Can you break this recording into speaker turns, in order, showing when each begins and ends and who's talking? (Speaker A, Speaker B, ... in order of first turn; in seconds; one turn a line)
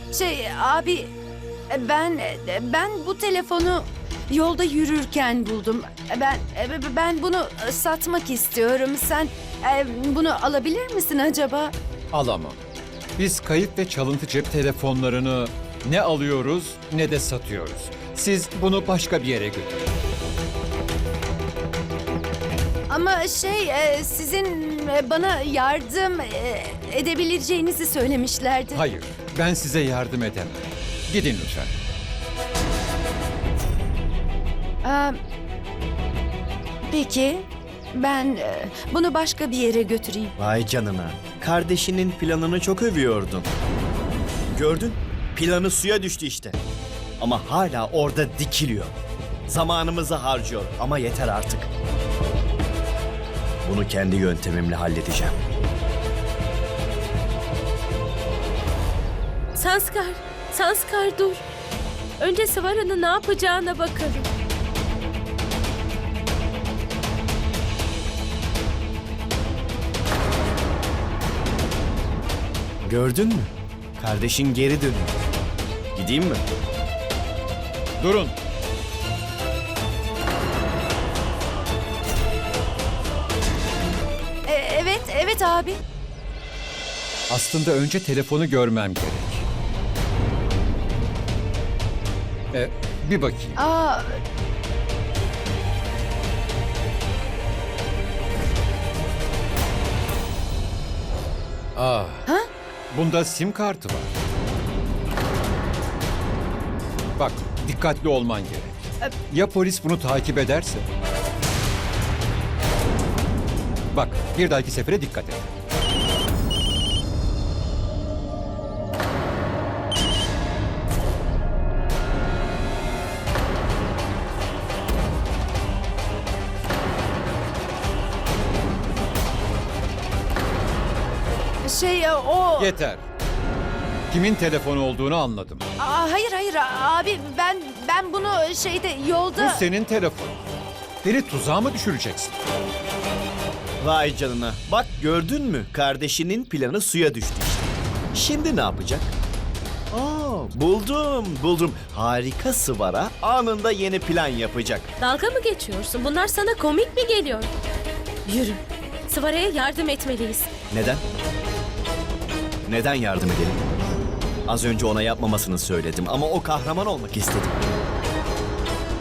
Speaker A: 0.1-1.1
Speaker A: 1.7-11.7
Speaker B: 12.1-12.6
Speaker B: 13.2-19.9
Speaker A: 22.9-28.8
Speaker B: 28.7-31.7
Speaker A: 34.8-35.2
Speaker A: 36.9-40.3
Speaker C: 40.4-43.5
Speaker C: 44.5-46.6
Speaker C: 47.2-48.9
Speaker C: 49.5-51.7
Speaker C: 53.6-55.4
Speaker D: 59.5-61.4
Speaker D: 62.2-64.3
Speaker C: 72.8-75.2
Speaker C: 75.9-76.4
Speaker B: 78.0-78.3
Speaker A: 84.5-85.8
Speaker B: 87.3-89.4
Speaker B: 92.5-93.6
Speaker A: 93.6-94.2
Speaker B: 101.7-102.2
Speaker B: 102.9-104.1
Speaker B: 107.2-110.8
Speaker B: 113.9-115.5
Speaker A: 131.6-132.8
Speaker B: 132.6-133.0
Speaker B: 134.1-135.6
Speaker A: 135.8-139.7
Speaker B: 139.4-140.4
Speaker B: 141.0-142.4
Speaker C: 143.8-149.1
Speaker C: 149.9-154.9
Speaker D: 155.0-157.5
Speaker D: 158.2-160.5
Speaker C: 160.7-161.0
Speaker C: 162.7-163.6
Speaker C: 164.5-167.7